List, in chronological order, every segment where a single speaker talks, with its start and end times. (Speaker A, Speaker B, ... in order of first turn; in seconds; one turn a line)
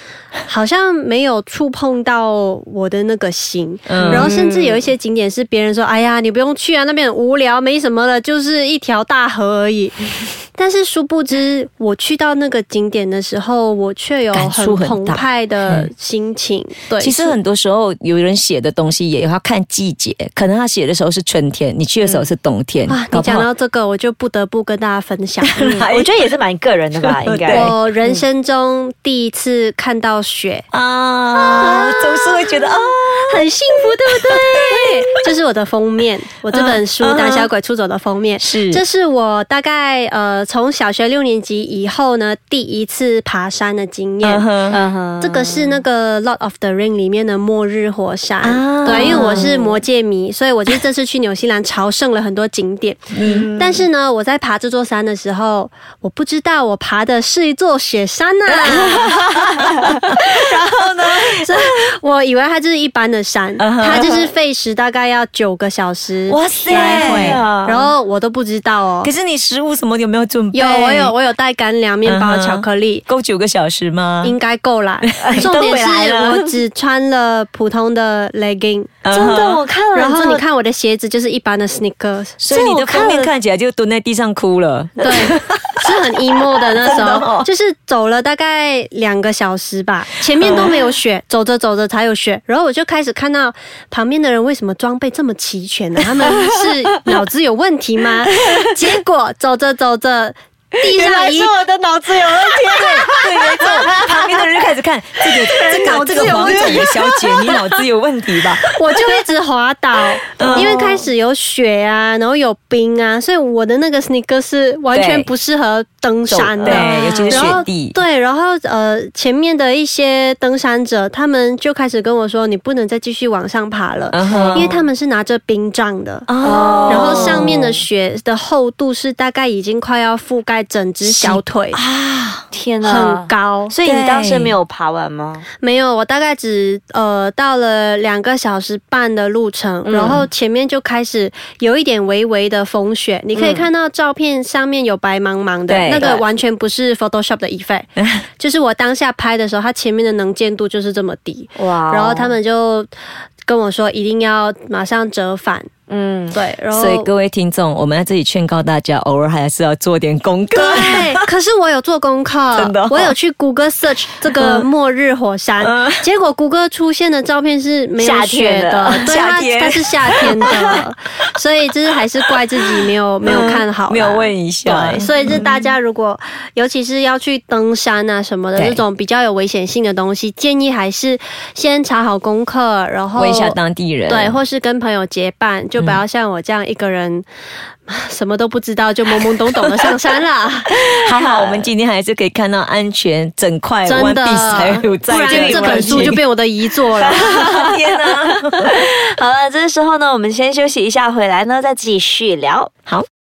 Speaker A: 0.4-17.4
Speaker B: 3.9-4.3
Speaker C: 4.0-4.9
Speaker B: 14.3-15.9
Speaker B: 17.0-23.5
Speaker C: 22.0-22.3
Speaker A: 22.9-25.6
Speaker B: 25.4-26.2
Speaker C: 25.6-28.2
Speaker B: 27.0-27.8
Speaker A: 27.5-30.6
Speaker B: 30.7-33.5
Speaker A: 31.3-44.5
Speaker B: 34.3-35.2
Speaker B: 36.5-37.5
Speaker B: 38.4-38.8
Speaker B: 44.2-44.8
Speaker C: 44.7-45.8
Speaker A: 45.2-59.1
Speaker B: 48.4-49.5
Speaker C: 48.8-49.8
Speaker B: 53.1-53.5
Speaker C: 53.2-53.8
Speaker C: 58.7-61.2
Speaker B: 58.7-59.1
Speaker A: 61.1-69.1
Speaker B: 63.6-64.2
Speaker B: 66.3-67.4
Speaker C: 66.6-67.9
Speaker B: 69.0-71.1
Speaker A: 70.5-73.0
Speaker B: 72.0-74.4
Speaker A: 74.2-79.0
Speaker B: 75.1-76.5
Speaker C: 75.2-75.5
Speaker B: 79.0-79.6
Speaker C: 79.1-80.4
Speaker A: 79.9-82.4
Speaker B: 82.4-87.5
Speaker C: 82.5-83.3
Speaker A: 85.0-101.5
Speaker B: 90.4-90.8
Speaker C: 100.8-104.4
Speaker B: 102.5-108.8
Speaker C: 105.5-107.6
Speaker A: 105.9-106.8
Speaker A: 108.7-126.3
Speaker B: 110.4-110.8
Speaker C: 110.4-111.1
Speaker B: 114.9-115.3
Speaker B: 116.3-118.0
Speaker C: 116.6-117.6
Speaker B: 124.1-124.7
Speaker C: 124.3-124.9
Speaker B: 126.3-127.6
Speaker C: 126.4-127.8
Speaker A: 126.9-131.8
Speaker B: 131.0-132.4
Speaker C: 132.5-135.4
Speaker A: 132.8-133.7
Speaker B: 133.8-134.6
Speaker A: 135.6-152.9
Speaker C: 139.8-140.2
Speaker C: 143.3-143.7
Speaker B: 145.7-146.2
Speaker B: 148.0-148.2
Speaker C: 151.6-152.4
Speaker A: 153.4-155.7
Speaker C: 155.9-156.4
Speaker A: 156.3-157.1
Speaker B: 156.7-161.2
Speaker A: 160.5-174.3
Speaker B: 162.5-163.1
Speaker B: 164.4-164.7
Speaker B: 165.6-166.0
Speaker C: 168.0-169.1
Speaker B: 168.9-170.8
Speaker B: 172.8-175.4
Speaker C: 174.7-175.7
Speaker A: 174.9-187.2
Speaker B: 178.5-178.8
Speaker B: 183.2-184.4
Speaker A: 187.9-190.7
Speaker C: 191.0-191.7
Speaker B: 191.0-196.2
Speaker A: 193.8-197.3
Speaker C: 195.1-196.2
Speaker C: 196.9-202.7
Speaker B: 197.1-198.8